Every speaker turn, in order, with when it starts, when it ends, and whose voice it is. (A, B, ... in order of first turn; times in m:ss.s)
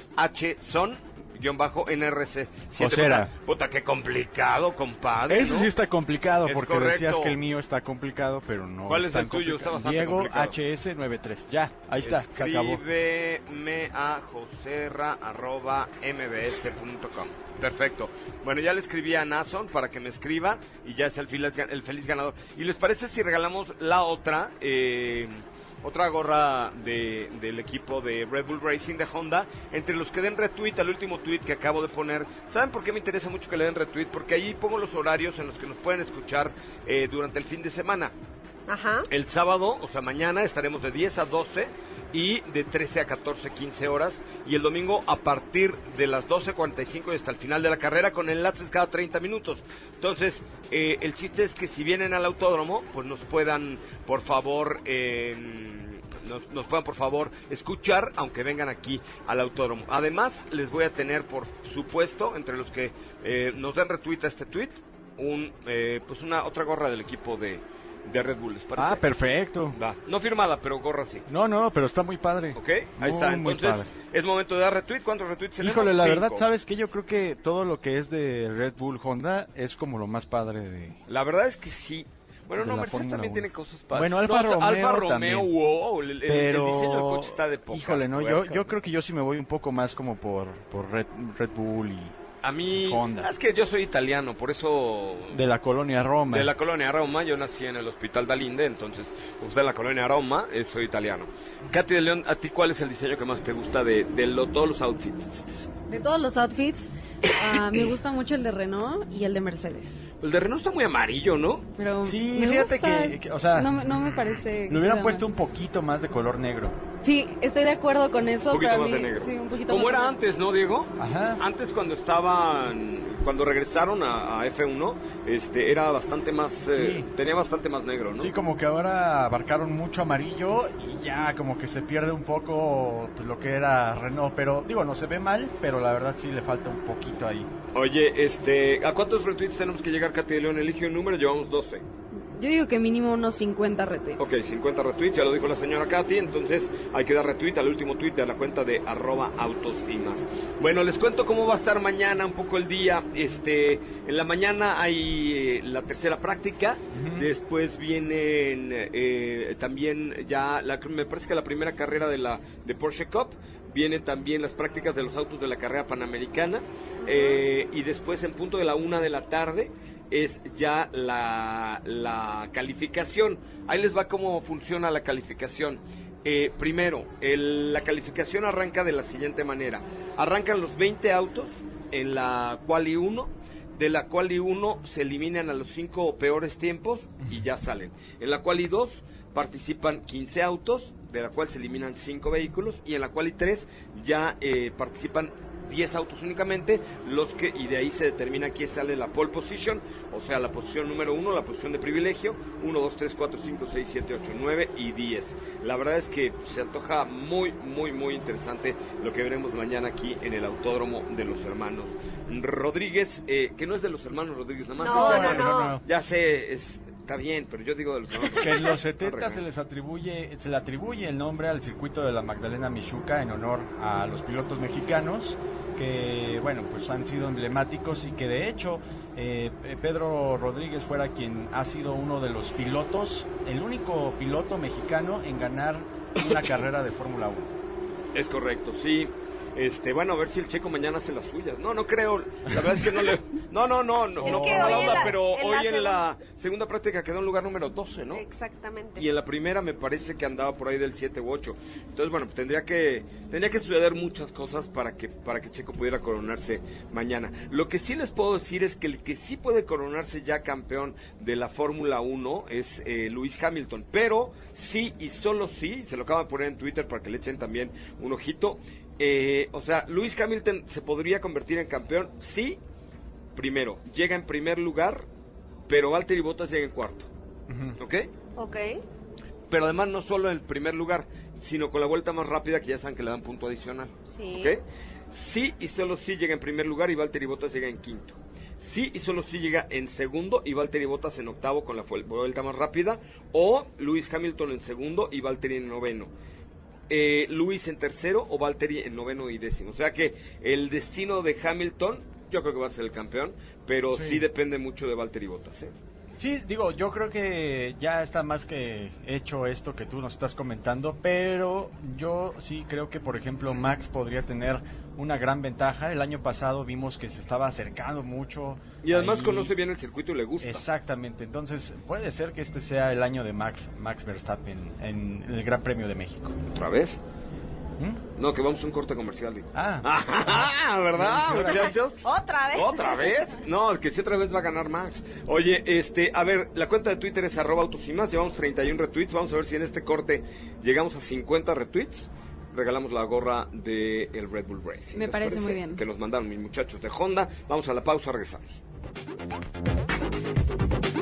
0:00.2-0:05.7 A
0:02.8-0:03.3 B
0:05.3-0:12.8 B
0:06.4-0:07.4 A
0:08.9-0:10.6 A
0:12.0-0:38.1 A
0:38.7-0:39.1 C
0:39.1-1:09.0 A
1:08.8-1:09.8 B
1:09.7-1:11.2 A
1:11.3-1:13.9 B
1:12.6-1:16.5 A
1:15.6-1:21.0 B
1:21.1-1:28.7 A
1:22.6-1:25.5 B
1:26.2-1:32.2 B
1:32.4-1:35.4 A
1:32.8-1:33.3 B
1:35.3-1:36.5 B
1:36.3-1:45.7 A
1:45.9-1:50.0 D
1:50.2-1:51.7 A
1:51.8-1:55.2 D
1:52.0-1:53.9 B
1:54.7-1:56.8 B
1:57.0-2:00.2 D
1:58.5-2:08.3 A
2:01.0-2:01.4 B
2:06.7-2:07.1 B
2:08.2-2:17.5 B
2:17.7-2:21.8 A
2:22.3-2:24.3 D
2:24.2-3:39.4 A
2:36.9-2:37.3 B
2:47.0-2:47.4 C
3:34.8-3:35.7 C
3:34.9-3:35.8 B
3:38.4-3:57.5 B
3:58.1-4:08.2 A
4:04.2-4:06.0 C
4:04.2-4:05.1 B
4:08.1-4:09.1 C
4:09.0-4:32.6 A
4:33.3-4:35.0 A
4:35.7-4:37.1 A
4:37.5-4:37.8 B
4:37.8-4:38.1 A
4:38.4-4:38.8 C
4:39.5-4:44.6 A
4:44.1-4:44.6 C
4:45.1-4:56.1 A
4:56.9-5:05.7 A
5:03.9-5:04.2 B
5:06.2-5:19.5 B
5:18.8-5:20.6 A
5:20.4-5:26.4 B
5:26.5-5:27.0 A
5:28.2-5:48.6 A
5:29.5-5:31.7 B
5:32.0-5:33.1 C
5:44.9-5:45.8 D